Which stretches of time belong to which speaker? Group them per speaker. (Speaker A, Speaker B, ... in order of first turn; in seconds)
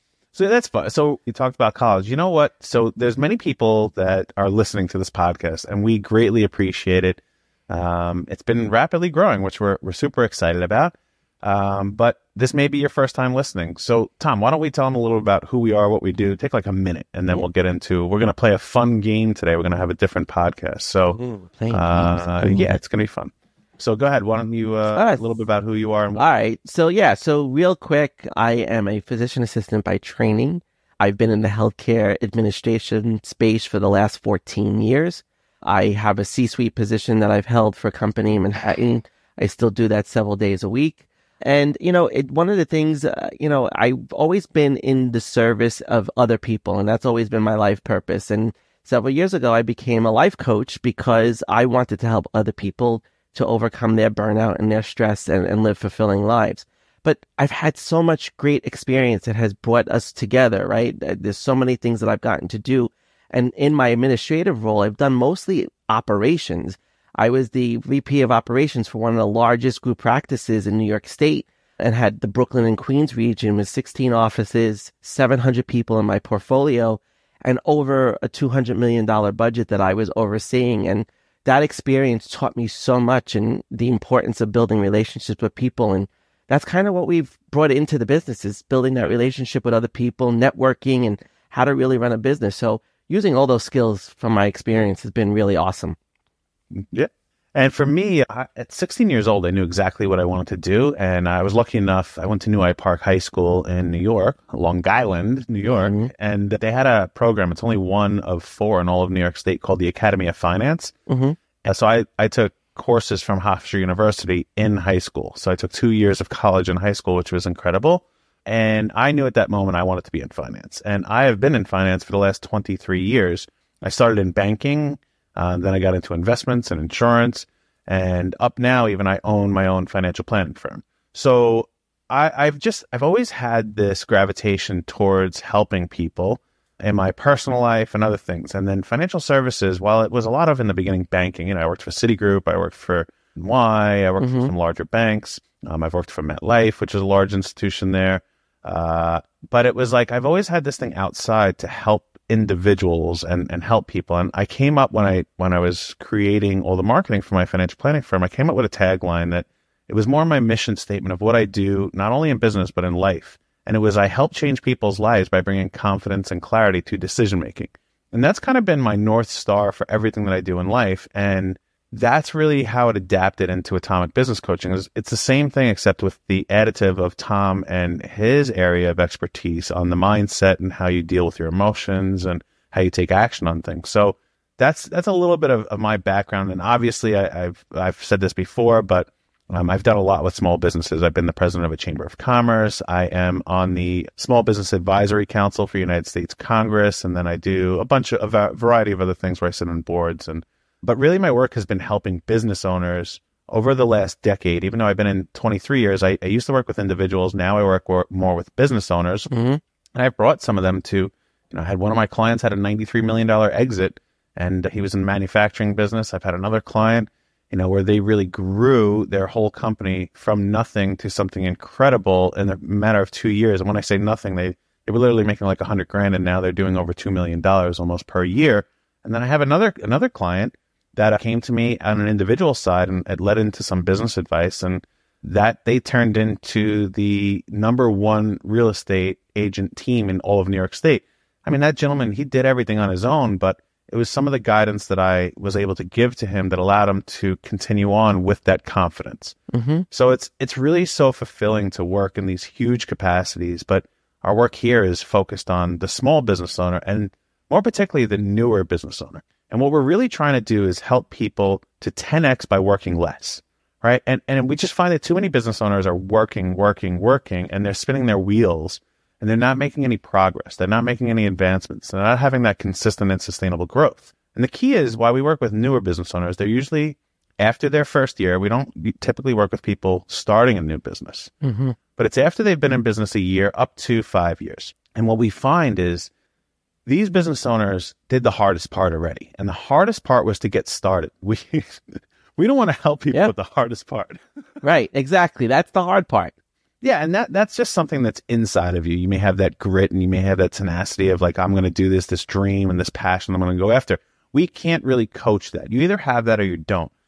Speaker A: 0.3-21.2, 21.7-26.2, 96.7-111.0, 111.6-209.3, 209.9-249.4, 249.9-281.3, 282.0-286.1, 286.9-294.2, 296.8-306.9
Speaker B: 21.1-22.7, 24.9-25.2, 26.1-96.0, 105.7-106.1, 111.1-111.4, 144.2-144.5, 209.3-209.6, 249.5-249.9, 281.4-281.8, 294.6-296.3